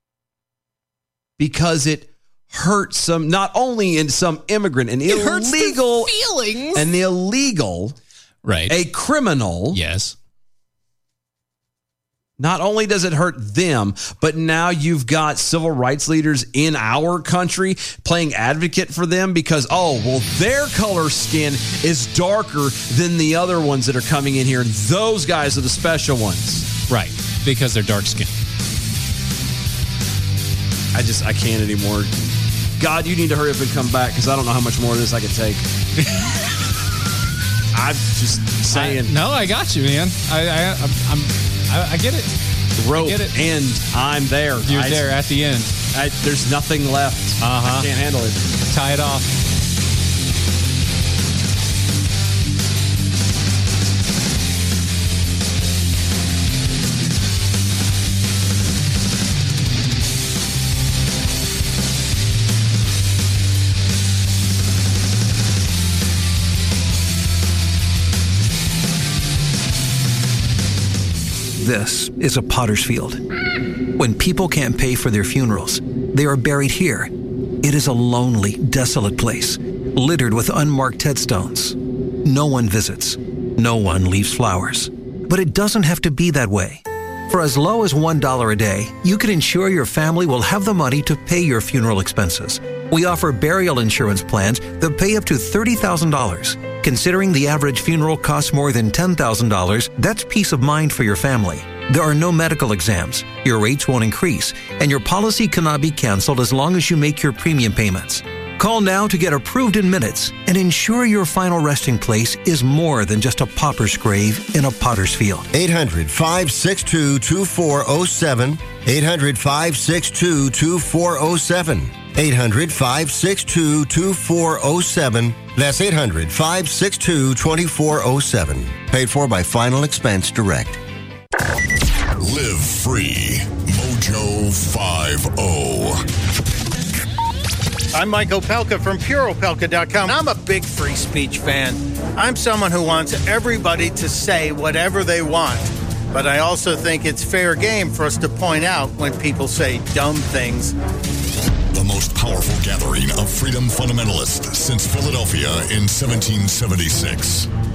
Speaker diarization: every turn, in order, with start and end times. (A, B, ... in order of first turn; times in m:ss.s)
0:01.4-0:06.1 A
0:05.1-0:06.9 B
0:06.7-0:08.0 A
0:08.4-0:08.8 B
0:08.7-0:09.8 A
0:09.7-0:10.2 B
0:12.4-0:26.7 A
0:26.9-0:28.3 B
0:30.9-0:32.2 A
0:32.8-0:35.7 A
0:37.7-0:39.2 A
0:38.7-0:42.3 B
0:42.8-0:45.1 A
0:43.0-0:43.3 B
0:44.6-0:45.8 B
0:45.9-0:48.6 A
0:47.4-0:47.9 B
0:48.7-0:49.3 B
1:11.6-1:13.2 C
1:14.0-1:17.1 C
1:17.6-1:55.5 C
1:55.5-2:10.8 D
2:12.2-2:16.0 E
2:17.9-2:30.8 F
2:31.7-2:37.5 E